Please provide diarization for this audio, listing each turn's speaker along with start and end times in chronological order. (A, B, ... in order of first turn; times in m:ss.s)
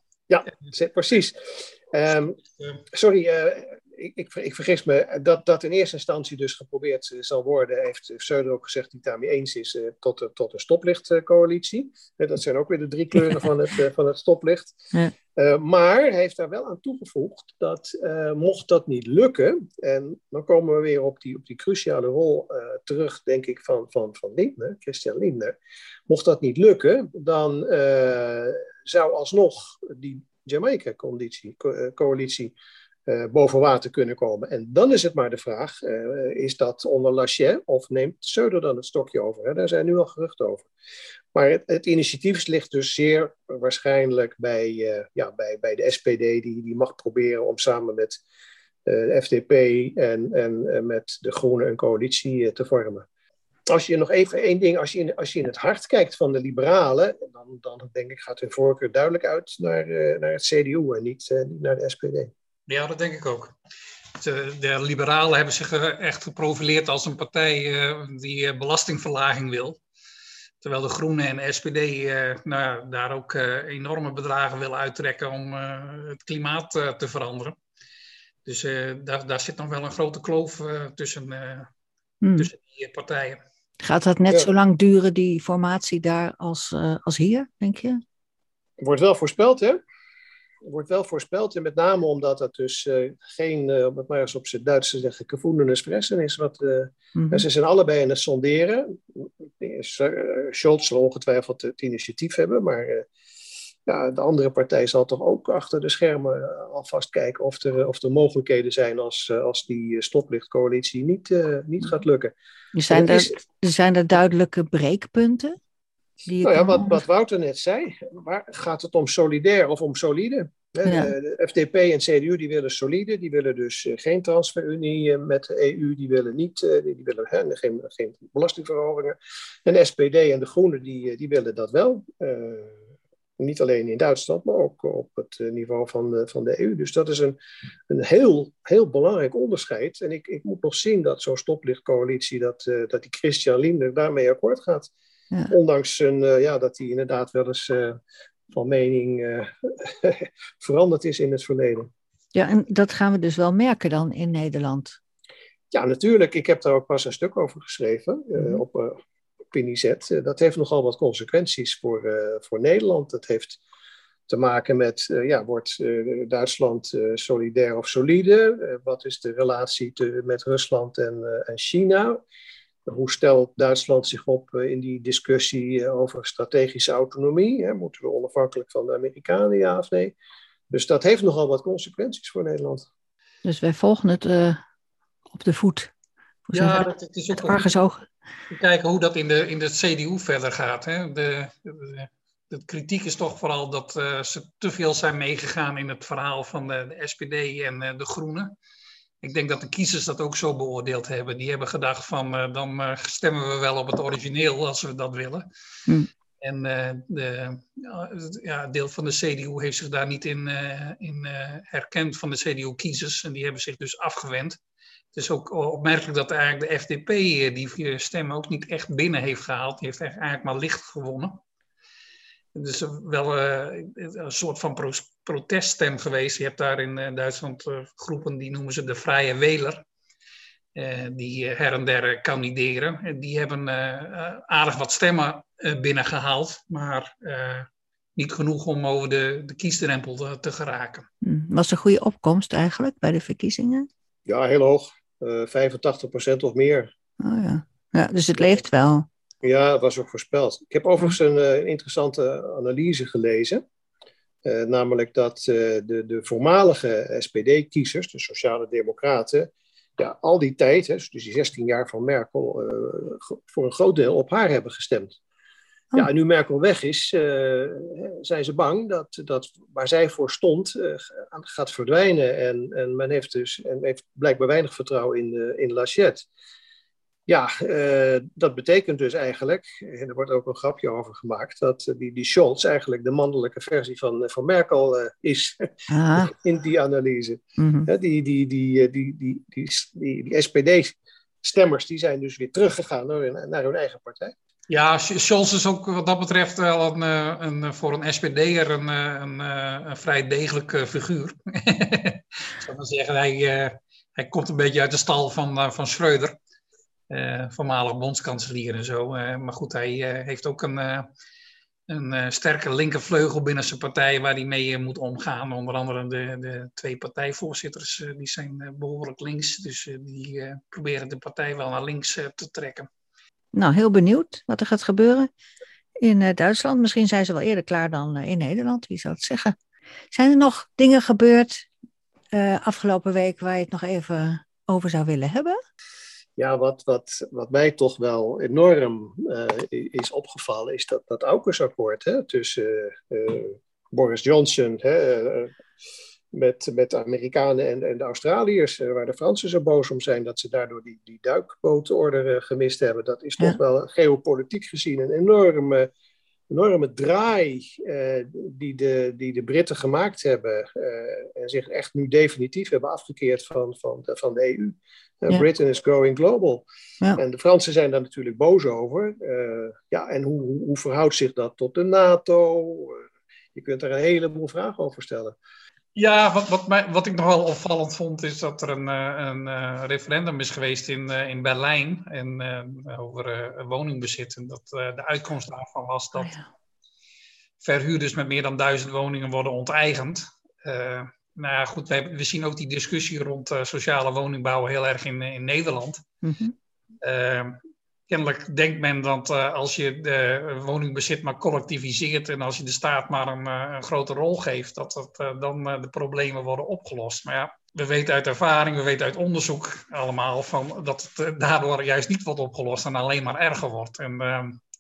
0:00.3-0:02.4 A
0:02.9-0:14.8 A
0:15.4-0:25.6 A
0:26.1-0:32.6 A
0:33.1-0:40.7 A
0:41.3-0:48.2 A
0:48.8-0:53.1 A
0:53.7-1:02.3 A
1:02.7-1:03.5 B
1:04.2-1:09.8 B
1:10.6-1:17.6 B
1:18.5-1:21.7 B
1:22.2-1:22.5 C
1:22.4-1:23.4 B
1:23.8-1:28.0 C
1:28.8-1:29.8 A
1:30.6-1:43.1 A
1:37.2-1:37.4 C
1:43.9-1:52.3 A
1:52.7-1:55.6 C
1:52.9-1:53.4 A
1:56.3-1:57.0 C
1:56.4-2:12.8 A
2:00.8-2:01.1 C
2:13.4-2:17.4 A
2:17.9-2:24.9 A
2:25.5-2:28.0 A
2:28.5-2:31.9 A
2:32.4-2:35.0 C
2:35.7-2:39.0 A
2:39.5-2:43.6 A
2:44.3-2:52.2 A
2:52.9-3:00.2 A
3:00.7-3:02.9 A
3:03.4-3:04.6 C
3:05.3-3:05.9 C
3:06.5-3:08.0 C
3:06.5-3:07.7 B
3:08.5-3:18.5 B
3:19.2-3:25.5 B
3:26.4-3:34.6 B
3:35.1-3:41.4 B
3:42.5-3:49.8 B
3:50.8-4:01.1 B
4:01.2-4:03.9 C
4:04.3-4:06.9 A
4:07.2-4:09.1 C
4:09.4-4:13.6 A
4:14.4-4:25.2 A
4:26.0-4:36.3 A
4:37.3-4:54.4 A
4:45.9-4:46.3 C
4:47.6-4:47.9 C
4:54.7-5:06.4 B
5:07.1-5:11.1 B
5:11.9-5:22.9 B
5:23.5-5:25.3 C
5:26.0-5:29.6 C
5:30.1-5:31.7 C
5:32.3-5:35.6 C
5:36.4-5:45.5 A
5:46.3-5:55.9 A
5:56.5-6:06.7 A
6:07.2-6:13.0 A
6:13.6-6:15.4 A
6:16.0-6:26.3 B
6:26.2-6:26.4 C
6:27.6-6:36.0 B
6:36.2-6:36.6 C
6:37.0-6:54.6 B